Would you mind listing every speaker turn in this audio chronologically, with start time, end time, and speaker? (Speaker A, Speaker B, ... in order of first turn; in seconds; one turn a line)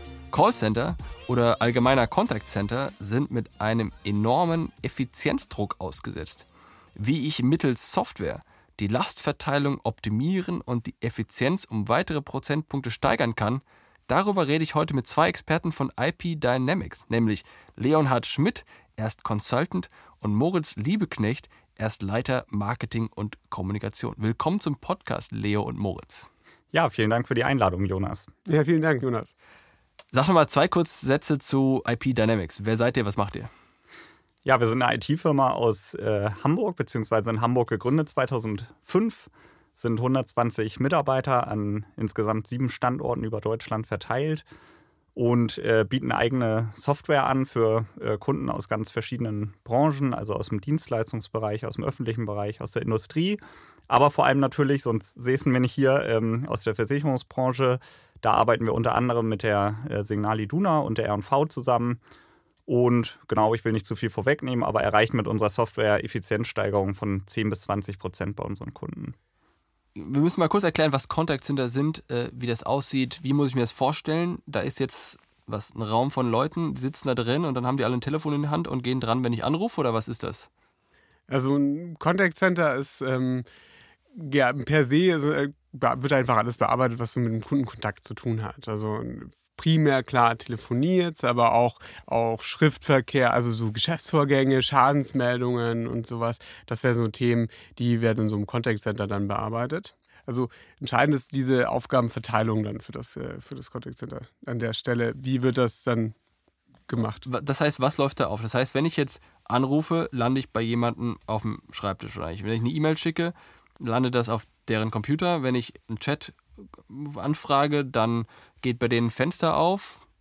Speaker A: 0.3-26.3
Speaker B: 26.7-28.3
Speaker C: 28.4-29.3
Speaker A: 30.1-33.5
Speaker B: 34.5-44.5
Speaker B: 45.2-62.0
Speaker B: 62.7-69.2
Speaker A: 70.0-80.5
Speaker C: 81.3-83.5
Speaker C: 84.1-106.1
Speaker C: 106.9-107.2
Speaker A: 107.2-120.0